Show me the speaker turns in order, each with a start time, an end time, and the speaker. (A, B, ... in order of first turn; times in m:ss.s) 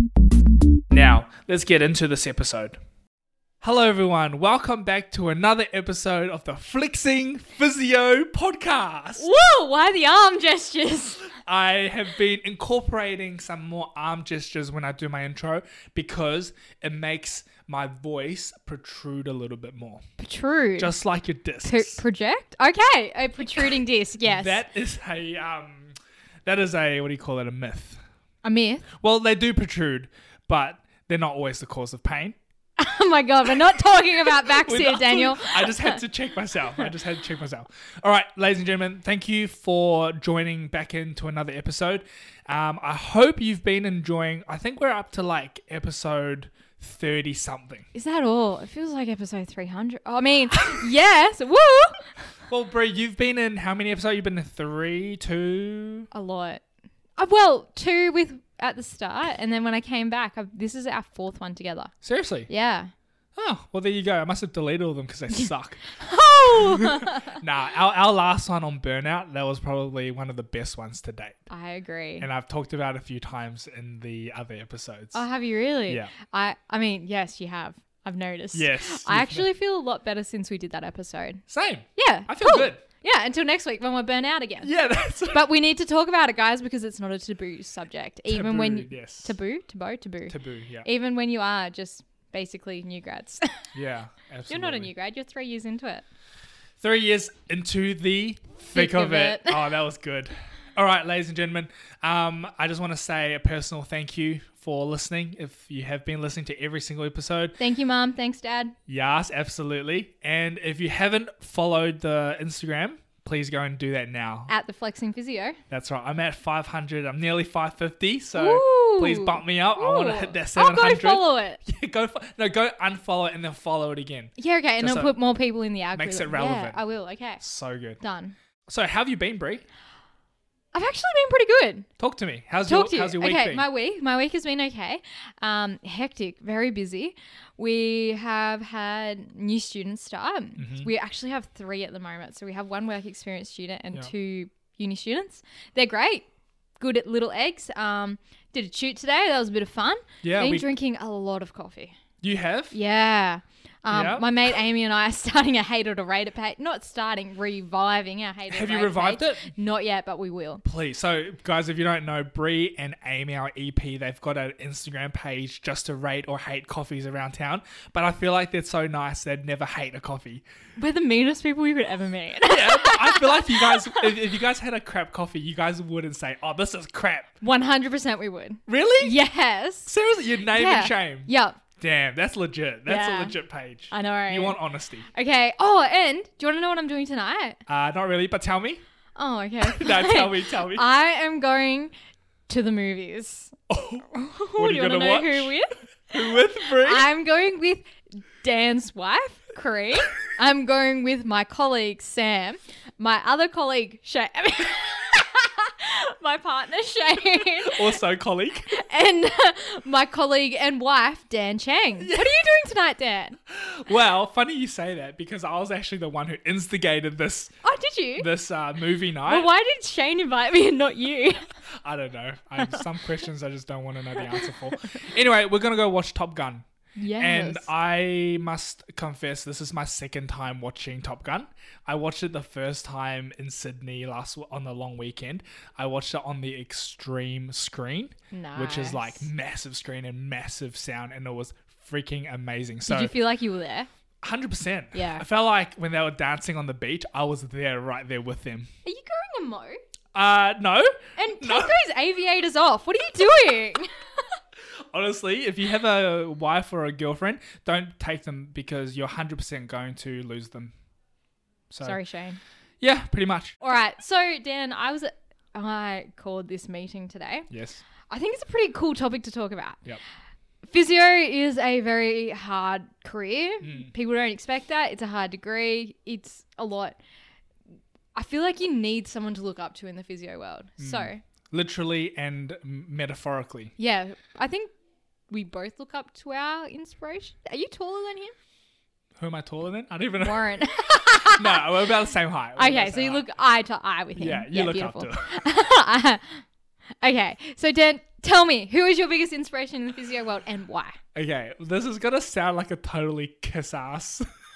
0:00.9-0:02.8 A
0:03.6-0:09.3 A
0:09.2-0:11.3 B
0:11.4-0:20.0 A
0:20.2-0:20.9 B
0:20.8-0:22.0 A
0:21.6-0:24.6 B
0:24.2-0:25.9 A
0:26.4-0:28.0 A
0:28.4-0:28.8 B
0:28.9-0:32.4 A
0:32.8-0:36.0 B
0:34.2-0:47.8 A
0:47.9-0:52.1 B
0:52.5-0:56.1 A
0:56.1-0:56.6 B
0:57.2-1:01.9 B
1:02.0-1:02.5 A
1:02.5-1:02.9 B
1:03.4-1:11.4 A
1:05.9-1:07.4 B
1:11.5-1:12.2 B
1:12.2-1:15.2 A
1:15.1-1:21.4 B
1:15.9-1:16.1 A
1:18.5-1:19.5 A
1:21.5-1:22.8 A
1:22.0-1:24.7 B
1:24.6-1:25.5 A
1:25.2-1:33.5 B
1:28.3-1:29.4 A
1:30.3-1:30.9 A
1:33.7-1:34.9 A
1:34.5-1:36.0 B
1:36.8-1:47.6 A
1:38.7-1:39.8 B
1:47.6-1:48.7 B
1:48.9-1:54.5 A
1:54.5-1:55.6 B
1:55.7-2:05.2 A
1:58.3-2:01.6 B
2:04.4-2:07.4 B
2:05.9-2:06.8 A
2:07.4-2:08.0 A
2:08.0-2:08.4 B
2:08.7-2:09.6 A
2:10.7-2:11.9 B
2:12.0-2:13.6 A
2:12.6-2:26.3 B
2:20.6-2:20.9 A
2:26.8-2:32.0 B
2:30.2-2:30.7 A
2:32.2-2:32.8 A
2:32.7-2:40.6 B
2:33.9-2:34.3 A
2:38.5-2:39.5 A
2:40.6-2:50.4 A
2:50.8-2:54.2 B
2:52.4-2:57.3 A
2:57.4-2:59.9 B
2:58.7-2:59.2 A
2:59.9-3:05.1 A
3:00.5-3:01.6 B
3:02.8-3:03.4 B
3:03.9-3:04.6 B
3:05.1-3:07.6 B
3:07.7-3:08.8 A
3:09.2-3:11.9 B
3:09.6-3:10.8 A
3:12.5-3:13.5 B
3:13.7-3:15.6 A
3:14.1-3:15.7 B
3:16.1-3:17.1 A
3:16.7-3:27.9 B
3:27.4-3:28.7 A
3:28.6-3:33.4 B
3:32.0-3:32.4 A
3:33.5-3:37.5 A
3:37.6-3:38.3 B
3:38.2-3:39.5 A
3:39.2-3:41.5 B
3:41.8-3:46.6 A
3:42.6-3:42.8 B
3:44.2-3:45.0 B
3:47.0-3:47.7 B
3:47.2-4:03.2 A
3:58.3-3:59.3 B
4:02.8-4:03.9 B
4:04.2-4:08.7 A
4:04.9-4:05.2 B
4:08.8-4:09.8 B
4:10.1-4:11.8 A
4:11.2-4:14.3 B
4:14.9-4:20.7 A
4:21.7-4:22.0 A
4:21.8-4:22.4 B
4:22.8-4:23.6 A
4:23.6-4:27.5 B
4:27.5-4:27.8 A
4:28.1-4:29.8 B
4:30.6-4:37.0 B
4:33.6-4:33.9 A
4:38.1-4:41.2 B
4:40.8-4:43.7 A
4:43.8-4:44.7 B
4:45.3-4:48.3 B
4:49.2-4:53.3 A
4:50.2-4:51.8 B
4:52.6-4:56.4 B
4:54.2-4:55.4 A
4:57.0-5:01.0 B
5:01.1-5:04.3 A